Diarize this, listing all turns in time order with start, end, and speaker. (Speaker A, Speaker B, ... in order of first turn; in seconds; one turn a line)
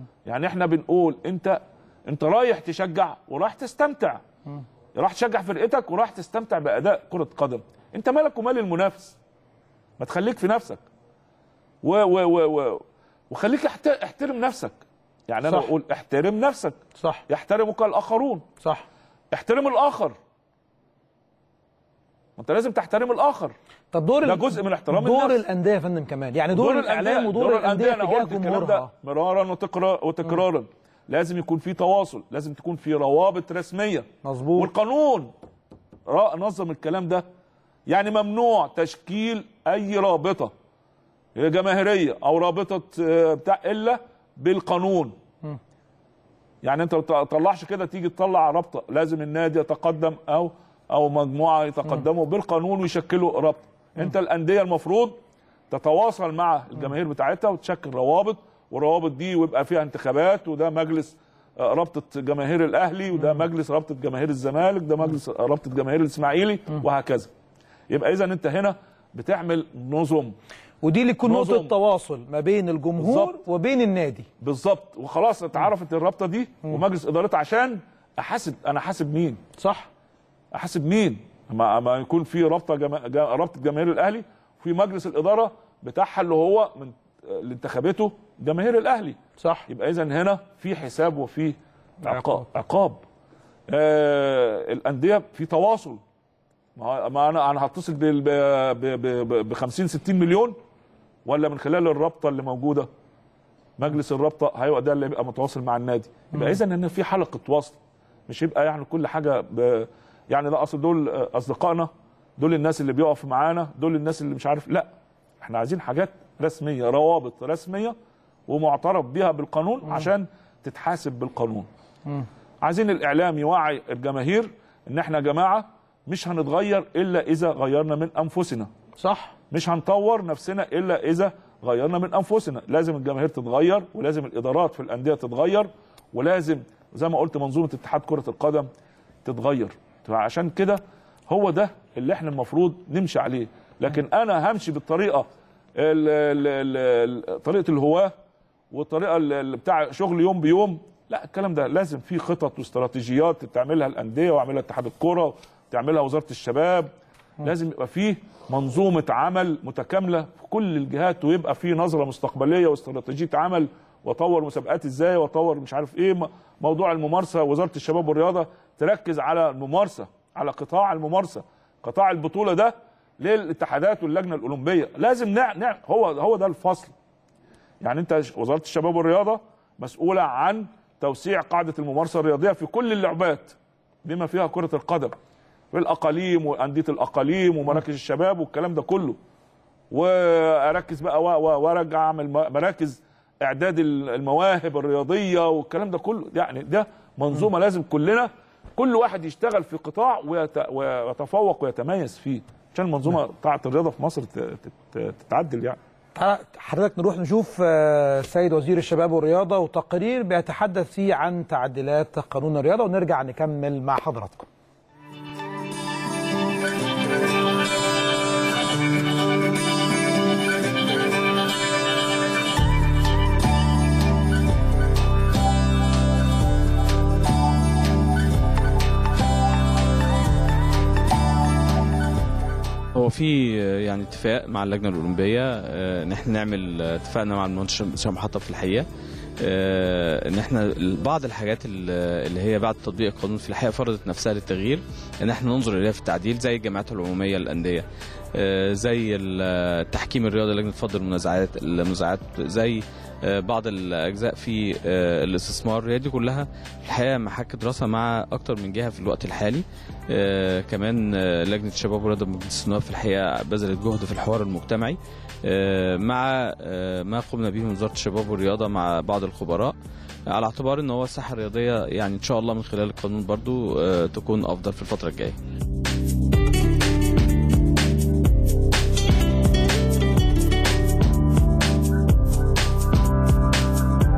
Speaker A: 0.2-4.2
Speaker A: 4.9-9.2
Speaker A: 10.0-10.8
Speaker A: 11.8-14.8
Speaker A: 15.3-16.8
Speaker B: 15.4-15.7
Speaker A: 17.3-18.4
Speaker A: 19.3-20.2
Speaker A: 22.4-23.5
Speaker B: 23.9-28.9
Speaker A: 24.2-25.4
Speaker A: 26.5-35.3
Speaker B: 34.2-34.7
Speaker A: 36.1-37.2
Speaker A: 37.9-40.5
Speaker A: 41.4-45.1
Speaker A: 46.6-55.2
Speaker A: 55.7-67.3
Speaker A: 67.9-70.4
Speaker B: 70.8-74.3
Speaker A: 71.2-71.7
Speaker A: 73.0-73.4
Speaker A: 74.4-79.4
Speaker B: 79.6-79.9
Speaker A: 80.5-93.0
Speaker B: 89.4-89.7
Speaker A: 93.7-96.0
Speaker A: 96.8-100.6
Speaker A: 101.2-102.9
Speaker A: 103.8-114.9
Speaker A: 115.4-118.0
Speaker A: 118.5-121.7
Speaker A: 122.6-128.7
Speaker B: 129.0-129.3
Speaker A: 129.5-138.7
Speaker A: 139.2-148.1
Speaker A: 148.7-156.9
Speaker A: 157.4-176.9
Speaker A: 177.8-185.2
Speaker A: 185.7-189.2
Speaker A: 189.9-205.8
Speaker B: 206.2-214.5
Speaker C: 232.9-238.9
Speaker C: 239.4-269.7
Speaker C: 270.3-275.4